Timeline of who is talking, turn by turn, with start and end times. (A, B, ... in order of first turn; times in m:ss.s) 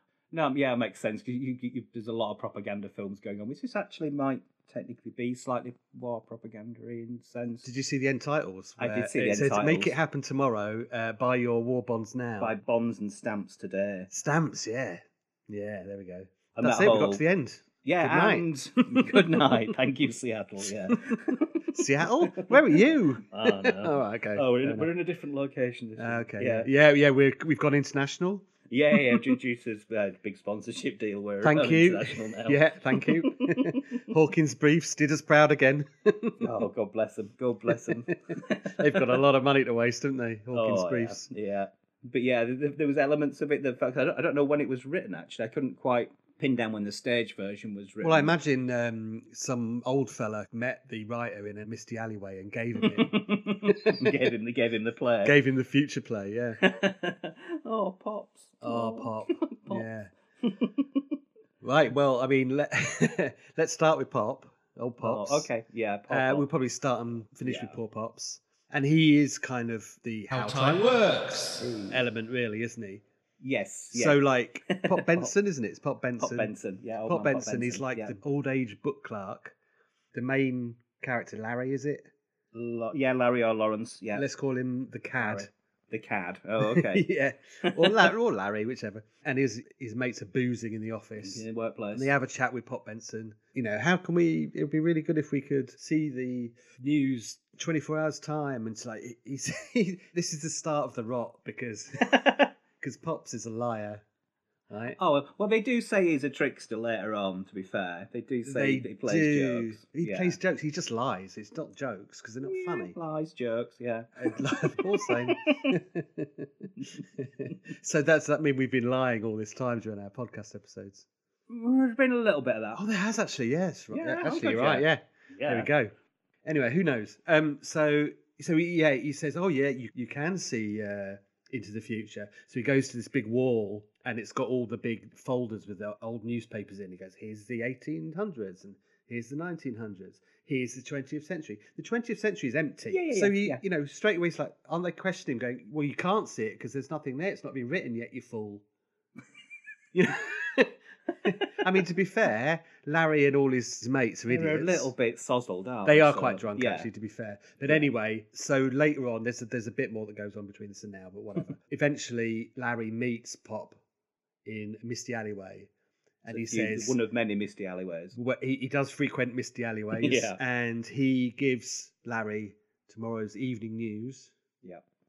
0:00.3-0:07.7 A
0:07.6-0:12.5 B
0:08.8-0:10.0 A
0:12.4-0:14.1 A
0:14.1-0:19.6 B
0:16.5-0:17.2 A
0:17.8-0:26.7 A
0:21.7-0:24.9 B
0:26.0-0:28.5 B
0:28.7-0:33.8 A
0:31.4-0:36.4 B
0:36.4-0:39.2 A
0:37.7-0:41.3 B
0:40.5-0:48.4 A
0:48.0-0:54.2 B
0:52.8-0:55.4 A
0:55.2-0:56.6 B
0:56.6-0:59.9 A
0:58.6-1:00.1 B
1:00.4-1:01.0 A
1:01.6-1:05.5 B
1:05.0-1:06.5 A
1:06.1-1:13.0 B
1:07.4-1:07.7 A
1:11.6-1:12.0 A
1:13.4-1:15.3 A
1:13.9-1:16.5 B
1:16.2-1:18.2 A
1:17.0-1:19.6 B
1:20.1-1:22.1 B
1:22.5-1:24.2 A
1:24.1-1:25.5 B
1:25.2-1:27.0 A
1:26.6-1:44.0 B
1:27.6-1:28.1 A
1:31.2-1:32.1 A
1:44.7-1:45.0 B
1:45.0-1:50.4 A
1:48.4-1:53.0 B
1:52.4-1:54.4 A
1:54.2-2:01.0 B
1:54.9-1:55.6 A
1:56.8-1:57.5 A
2:01.5-2:02.8 A
2:02.7-2:05.9 B
2:03.9-2:05.7 A
2:06.4-2:28.6 B
2:22.9-2:23.6 A
2:29.9-2:34.9 B
2:34.3-2:36.9 A
2:35.8-2:43.8 B
2:44.4-2:45.7 B
2:46.2-2:47.0 B
2:46.3-2:48.2 A
2:48.1-2:54.3 B
2:49.9-2:50.4 A